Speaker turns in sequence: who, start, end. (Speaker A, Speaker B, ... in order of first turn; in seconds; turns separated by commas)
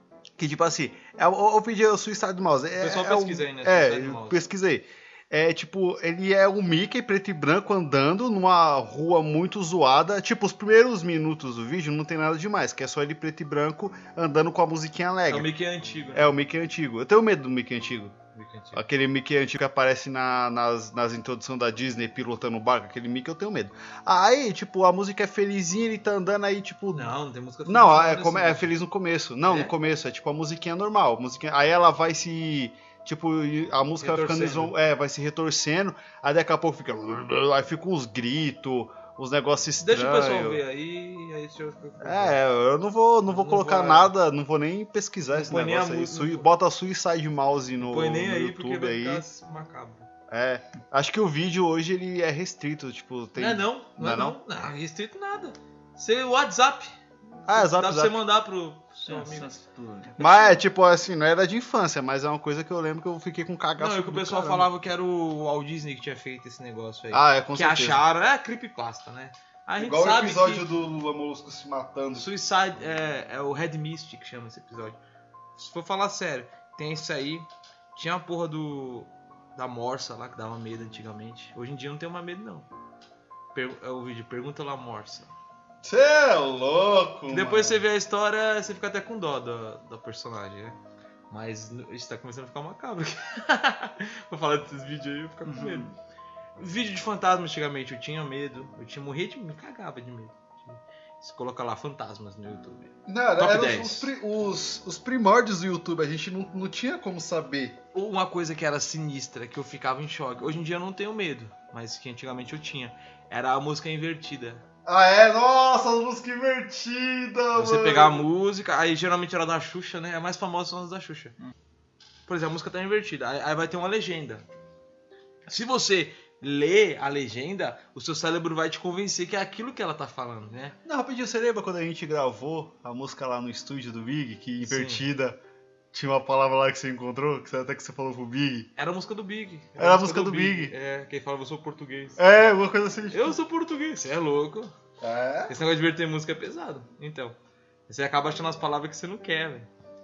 Speaker A: 0.4-15.5, Speaker B: 2.8-4.5, Speaker B: 15.3-16.3, Speaker A: 16.1-18.2, Speaker B: 18.3-18.8, Speaker A: 18.7-27.1, Speaker B: 26.9-28.7, Speaker A: 27.7-40.6, Speaker B: 29.5-29.7, Speaker B: 34.0-34.8, Speaker B: 39.8-42.4, Speaker A: 42.0-49.2, Speaker B: 43.3-44.1, Speaker B: 45.3-46.5, Speaker B: 47.8-50.1, Speaker A: 50.3-54.4, Speaker B: 53.4-56.9, Speaker A: 57.5-58.2, Speaker B: 57.5-59.5, Speaker C: 59.0-60.6, Speaker A: 60.2-64.7, Speaker B: 63.8-70.7, Speaker A: 67.1-68.0, Speaker A: 69.8-72.3, Speaker B: 72.2-75.0, Speaker B: 75.6-82.7, Speaker B: 83.5-85.3, Speaker A: 85.8-87.8, Speaker B: 87.3-90.8, Speaker B: 91.3-95.9, Speaker C: 95.5-95.9, Speaker B: 96.6-104.1, Speaker A: 103.1-107.8, Speaker B: 107.9-114.6, Speaker A: 114.9-118.3, Speaker B: 117.5-121.3, Speaker B: 122.3-124.5, Speaker B: 125.5-130.8, Speaker A: 130.8-135.4, Speaker B: 134.7-135.1, Speaker A: 135.9-138.7, Speaker B: 138.8-142.4, Speaker A: 139.8-140.7, Speaker A: 142.2-143.4, Speaker B: 143.1-144.7, Speaker A: 145.0-145.6, Speaker B: 145.5-147.4, Speaker B: 147.9-149.7